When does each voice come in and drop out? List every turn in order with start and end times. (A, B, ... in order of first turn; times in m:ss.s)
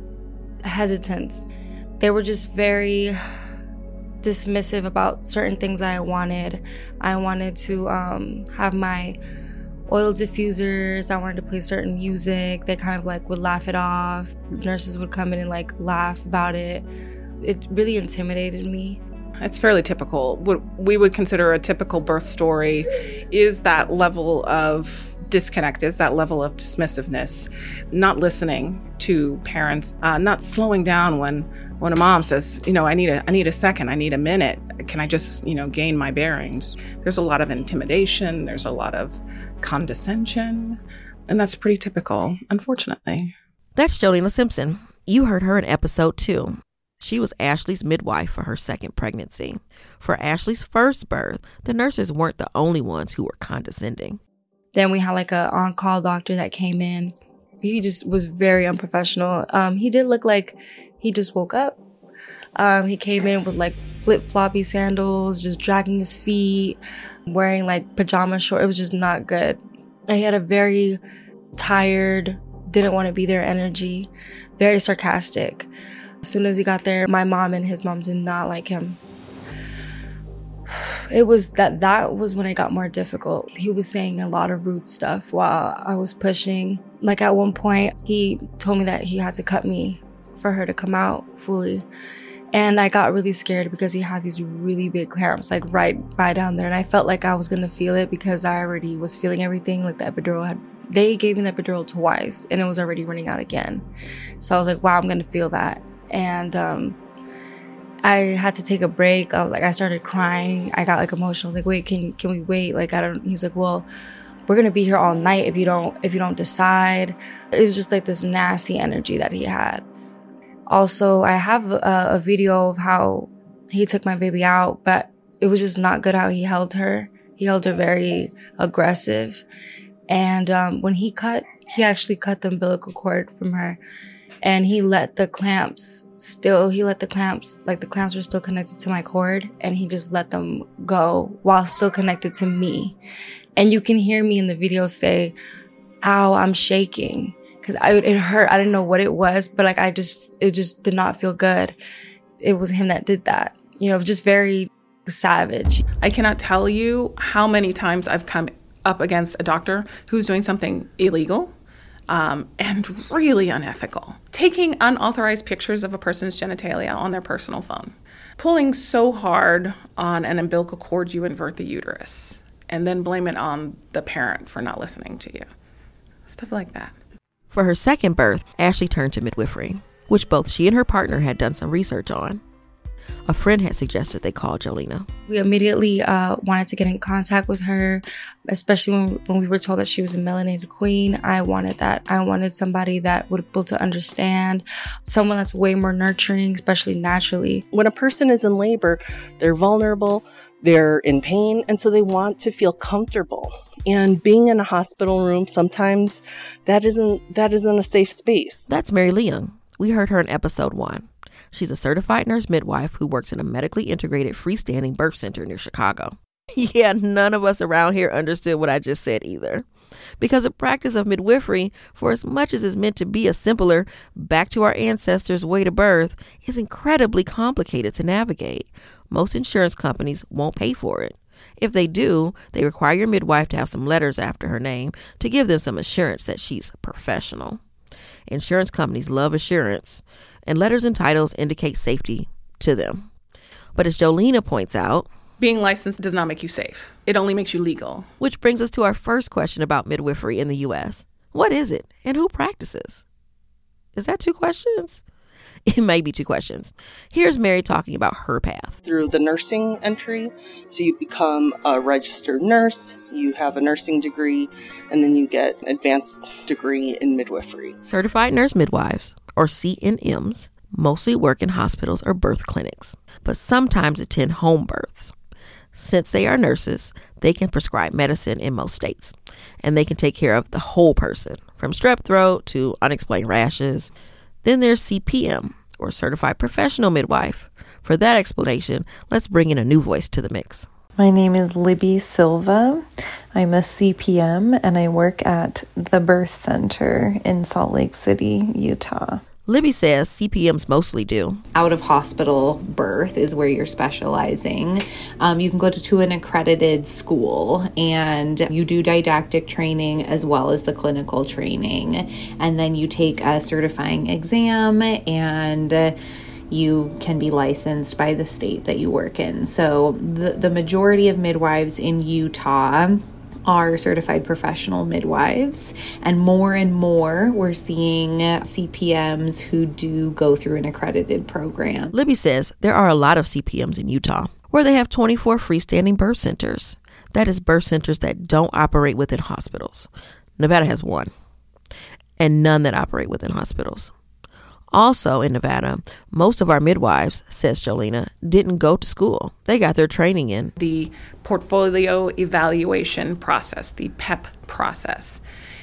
0:00.6-0:01.4 A
0:02.0-0:03.2 A
0:04.2-0:09.2 A
0:09.9-0:16.9 A
0:17.4-0:19.0 A
0:19.4-0:43.3 B
0:43.8-0:54.2 C
0:54.7-1:01.8 A
1:02.6-1:11.0 A
1:11.6-1:15.7 A
1:16.2-1:19.0 A
1:20.7-1:31.8 A
1:32.5-1:43.8 A
1:44.4-1:47.0 A
1:48.0-1:53.9 A
1:54.5-1:59.8 A
2:00.7-2:09.4 A
2:10.1-2:13.8 A
2:14.4-2:23.0 A
2:23.6-2:25.3 A
2:26.0-2:31.8 A
2:32.4-2:35.8 A
2:36.0-2:41.5 B
2:42.1-2:55.5 B
2:56.3-2:56.9 B
2:57.5-3:02.4 C
3:03.3-3:05.1 C
3:05.3-3:17.6 A
3:17.7-3:28.8 D
3:28.7-3:39.7 C
3:40.2-3:57.6 C
3:58.3-4:03.1 C
4:03.7-4:05.1 C
4:05.4-4:08.1 B
4:08.2-4:13.0 C
4:13.9-4:15.0 C
4:15.6-4:18.8 C
4:18.8-4:27.8 D
4:27.8-4:35.1 C
4:35.7-4:43.9 C
4:44.4-4:50.7 C
4:51.0-4:59.2 E
4:59.4-5:01.4 C
5:01.5-5:15.9 F
5:16.5-5:31.9 F
5:31.9-5:41.1 C
5:42.2-5:43.9 C
5:44.7-5:50.5 C
5:50.6-5:55.2 B